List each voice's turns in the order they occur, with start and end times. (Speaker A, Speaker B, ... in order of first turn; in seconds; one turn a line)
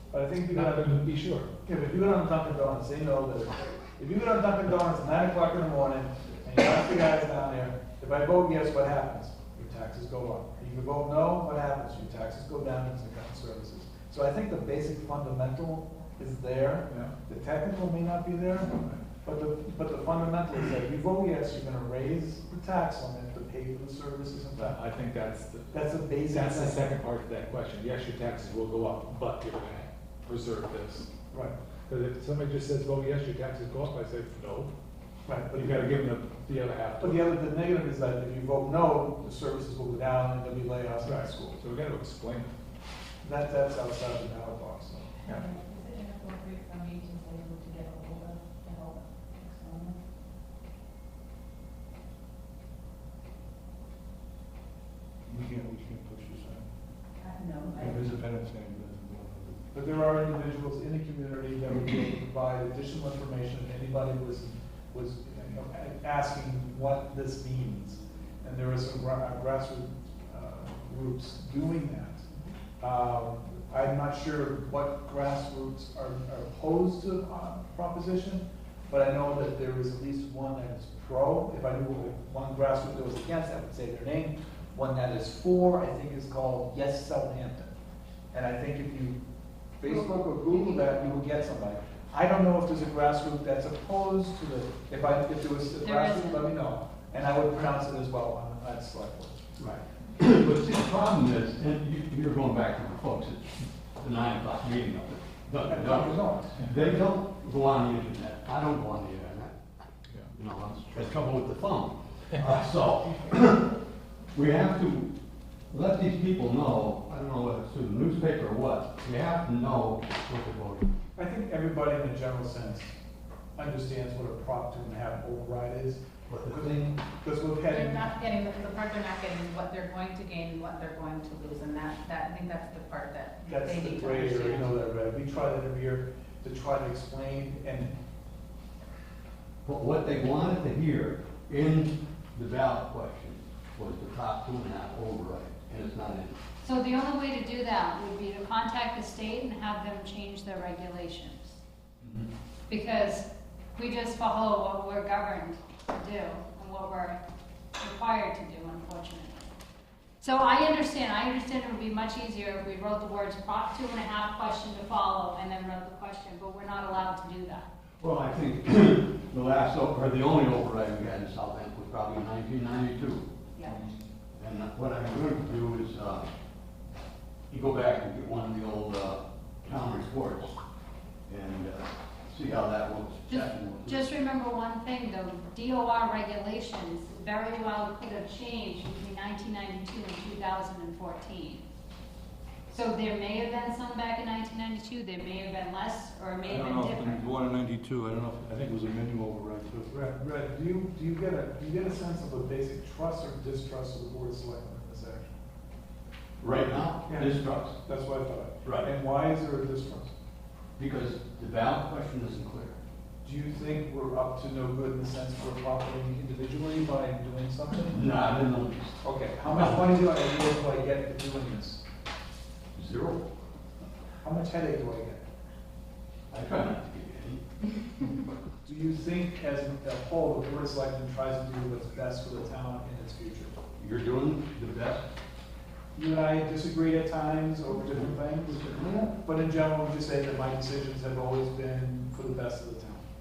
Speaker A: 0.1-1.1
Speaker B: 0.5-1.5
Speaker A: 1.6-24.8
Speaker B: 18.7-19.0
Speaker B: 24.6-31.1
Speaker A: 25.7-26.8
Speaker B: 31.9-34.7
Speaker A: 35.3-35.9
Speaker B: 35.5-37.2
Speaker A: 37.0-41.6
Speaker B: 41.0-42.5
Speaker A: 43.2-45.2
Speaker C: 45.3-50.0
Speaker D: 55.3-56.6
Speaker C: 57.2-58.0
Speaker D: 57.7-59.6
Speaker A: 59.7-72.3
Speaker A: 72.8-87.7
Speaker A: 88.3-89.2
Speaker A: 89.8-99.5
Speaker E: 95.8-96.5
Speaker F: 99.6-109.6
Speaker A: 105.7-106.7
Speaker F: 110.3-113.8
Speaker F: 114.3-115.1
Speaker F: 115.7-120.9
Speaker A: 121.2-122.9
Speaker A: 123.6-128.1
Speaker F: 126.3-126.8
Speaker C: 127.7-134.8
Speaker A: 133.4-137.9
Speaker F: 139.7-146.4
Speaker E: 146.6-151.6
Speaker F: 152.0-152.3
Speaker E: 152.7-157.2
Speaker E: 157.8-159.4
Speaker E: 160.2-167.7
Speaker F: 168.0-173.3
Speaker E: 173.6-173.9
Speaker F: 174.4-176.3
Speaker F: 177.5-180.6
Speaker F: 181.3-184.1
Speaker E: 183.3-191.6
Speaker E: 192.7-197.2
Speaker D: 196.5-200.2
Speaker A: 200.2-205.3
Speaker F: 206.4-207.8
Speaker A: 207.1-210.1
Speaker F: 208.6-208.9
Speaker F: 210.8-212.8
Speaker A: 213.2-218.1
Speaker F: 217.9-219.9
Speaker A: 219.0-221.8
Speaker F: 222.8-223.3
Speaker A: 224.2-225.2
Speaker F: 226.3-227.4
Speaker A: 228.6-233.5
Speaker F: 233.8-235.1
Speaker A: 235.9-243.1
Speaker F: 237.9-239.2